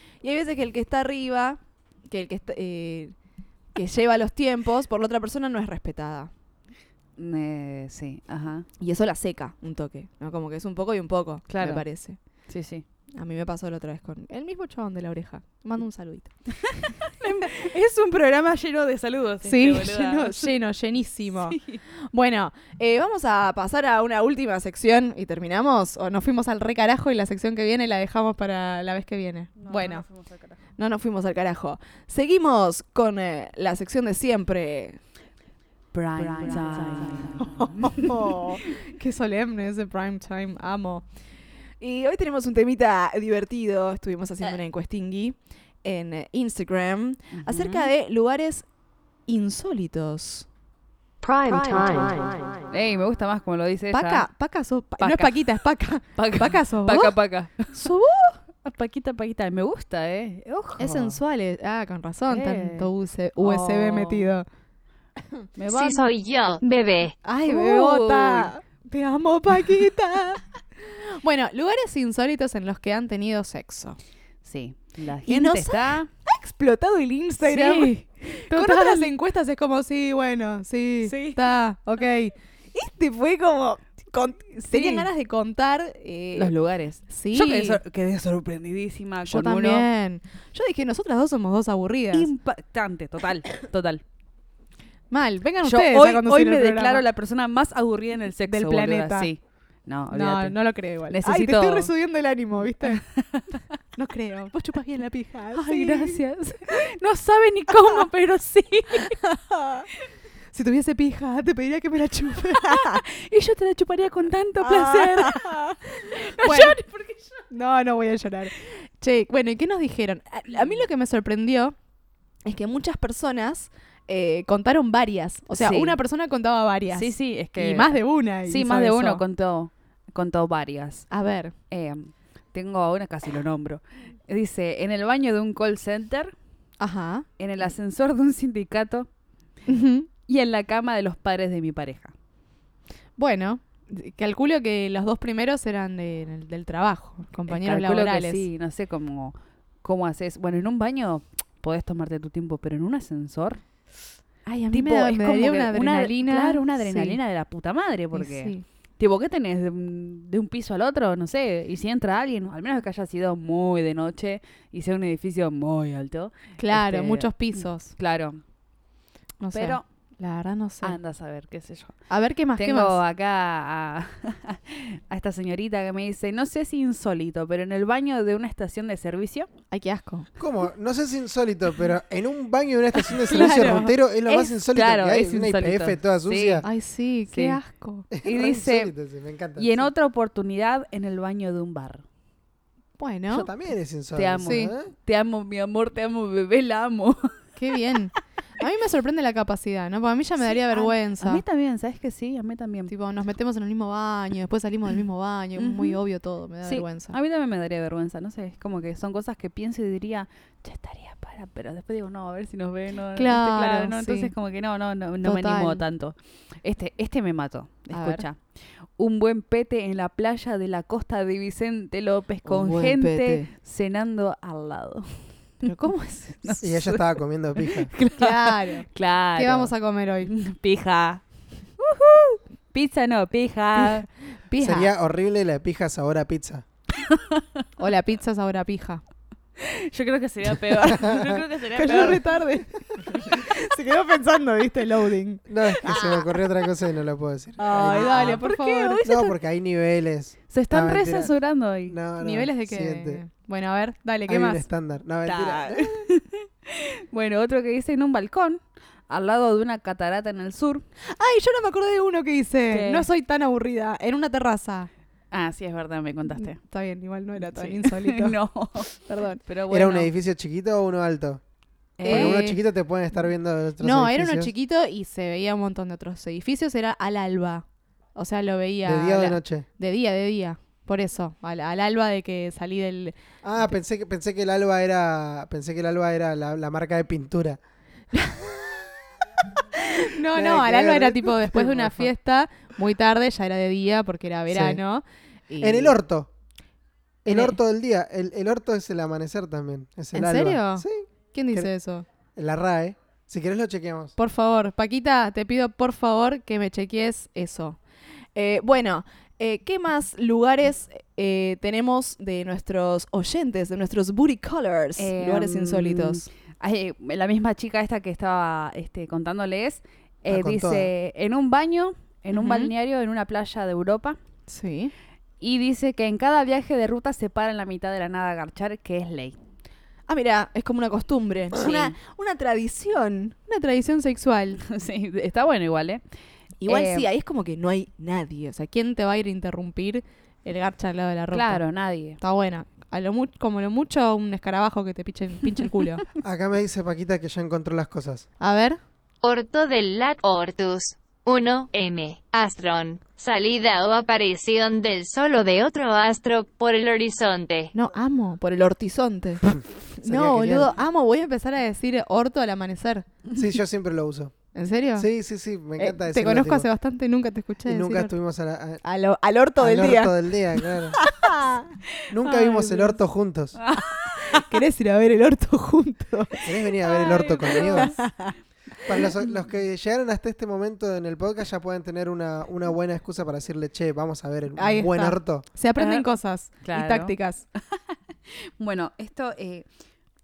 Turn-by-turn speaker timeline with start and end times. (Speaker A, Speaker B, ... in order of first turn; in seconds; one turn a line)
Speaker A: 0.2-3.1
Speaker A: 3.7-6.3
Speaker B: 7.2-8.7
Speaker A: 8.8-12.2
Speaker B: 11.5-11.8
Speaker B: 12.5-12.8
Speaker A: 13.2-16.9
Speaker B: 17.0-20.5
Speaker A: 19.4-21.6
Speaker B: 21.5-21.8
Speaker A: 22.1-30.0
Speaker B: 29.6-30.6
Speaker A: 30.8-35.0
Speaker B: 35.9-38.4
Speaker A: 36.2-41.0
Speaker A: 41.8-48.6
Speaker B: 47.3-47.9
Speaker A: 49.2-50.5
Speaker A: 51.5-52.3
Speaker B: 52.7-54.3
Speaker A: 53.9-57.1
Speaker B: 55.0-55.6
Speaker B: 56.1-61.2
Speaker A: 57.7-58.3
Speaker A: 60.8-64.5
Speaker B: 62.3-64.3
Speaker B: 65.6-66.0
Speaker C: 65.7-67.1
Speaker A: 67.2-74.0
Speaker B: 67.5-68.5
Speaker B: 74.4-76.1
Speaker A: 75.2-86.5
Speaker B: 77.4-79.1
Speaker B: 81.0-81.5
Speaker B: 84.6-85.1
Speaker B: 86.3-89.8
Speaker A: 87.1-87.8
Speaker A: 89.2-92.3
Speaker B: 92.1-94.0
Speaker A: 95.1-97.0
Speaker B: 95.6-101.9
Speaker A: 98.5-99.3
Speaker A: 100.1-103.0
Speaker B: 102.9-103.6
Speaker A: 104.0-106.2
Speaker B: 105.5-109.2
Speaker A: 109.1-109.9
Speaker A: 110.5-113.0
Speaker B: 112.5-117.4
Speaker A: 114.6-116.8
Speaker A: 117.5-121.8
Speaker A: 122.4-129.2
Speaker B: 125.5-126.0
Speaker B: 126.9-131.1
Speaker A: 131.1-131.5
Speaker B: 131.7-136.3
Speaker A: 136.8-137.2
Speaker B: 137.4-139.1
Speaker A: 139.7-140.1
Speaker B: 140.3-142.1
Speaker A: 143.2-148.4
Speaker B: 147.5-153.6
Speaker A: 154.4-157.2
Speaker B: 154.7-168.4
Speaker A: 158.1-158.6
Speaker A: 166.6-167.9
Speaker A: 169.4-170.9
Speaker B: 169.5-169.8
Speaker B: 170.8-172.1
Speaker A: 172.1-173.0
Speaker B: 172.6-179.5
Speaker A: 179.7-180.3
Speaker D: 180.4-186.6
Speaker A: 183.2-183.9
Speaker B: 183.3-186.7
Speaker A: 186.6-188.1
Speaker B: 187.3-187.6
Speaker D: 188.1-189.9
Speaker B: 188.2-188.9
Speaker B: 189.6-192.0
Speaker A: 193.0-193.5
Speaker D: 193.3-194.9
Speaker B: 194.1-197.3
Speaker A: 194.4-194.7
Speaker A: 197.6-201.4
Speaker B: 200.4-202.9
Speaker A: 202.9-207.1
Speaker B: 205.6-206.0
Speaker B: 206.6-218.4
Speaker A: 213.1-214.3
Speaker A: 215.2-215.8
Speaker A: 217.9-218.2
Speaker B: 219.0-225.3
Speaker A: 222.4-223.5
Speaker A: 225.6-226.6
Speaker B: 226.4-231.2
Speaker D: 226.6-227.9
Speaker A: 228.1-230.3
Speaker B: 231.8-234.1
Speaker A: 233.8-234.9
Speaker D: 234.6-236.6
Speaker B: 236.9-237.6
Speaker A: 237.8-239.0
Speaker B: 239.6-242.2
Speaker D: 241.0-241.4
Speaker A: 241.7-246.3
Speaker D: 245.5-248.4
Speaker A: 247.6-249.0
Speaker B: 247.7-249.3
Speaker D: 249.0-251.3
Speaker B: 250.5-252.0
Speaker D: 251.9-253.2
Speaker A: 252.2-254.6
Speaker D: 254.3-255.9
Speaker B: 255.2-260.9
Speaker A: 261.1-264.9
Speaker B: 262.7-263.1
Speaker B: 265.3-266.6
Speaker A: 266.3-268.4
Speaker B: 267.4-268.9
Speaker A: 268.9-269.4
Speaker B: 269.4-270.1
Speaker D: 269.7-271.4
Speaker B: 272.0-272.4
Speaker A: 272.0-272.6
Speaker D: 272.0-274.5
Speaker A: 273.8-283.7
Speaker D: 278.8-279.6
Speaker D: 283.4-287.6
Speaker A: 289.8-296.0
Speaker D: 290.3-292.1
Speaker D: 294.5-294.8
Speaker D: 295.6-296.3
Speaker D: 297.2-301.7
Speaker A: 297.3-297.6
Speaker A: 300.1-302.1
Speaker D: 302.4-304.1
Speaker A: 304.2-307.8
Speaker A: 308.3-316.2
Speaker B: 315.0-324.2
Speaker D: 320.2-320.9
Speaker A: 322.3-322.7
Speaker A: 324.5-324.9
Speaker B: 325.4-329.4
Speaker A: 330.1-334.6
Speaker B: 331.5-331.9
Speaker B: 334.6-336.0
Speaker A: 336.6-341.6
Speaker B: 336.7-337.1
Speaker B: 341.3-342.2
Speaker A: 342.2-346.0
Speaker D: 346.2-348.3
Speaker A: 348.4-348.8
Speaker C: 349.2-357.7
Speaker A: 357.7-363.1
Speaker D: 359.6-360.7
Speaker D: 363.3-364.3
Speaker A: 364.5-365.1
Speaker D: 364.9-366.7
Speaker A: 365.8-368.1
Speaker D: 367.6-368.8
Speaker A: 368.8-371.7
Speaker D: 369.6-371.0
Speaker D: 372.1-373.6
Speaker A: 372.2-373.0
Speaker B: 373.6-374.4
Speaker A: 374.2-378.3
Speaker D: 376.4-377.9
Speaker B: 376.8-378.0
Speaker D: 378.9-385.4
Speaker A: 384.6-387.4
Speaker B: 385.8-386.1
Speaker B: 386.6-387.1
Speaker B: 388.3-389.6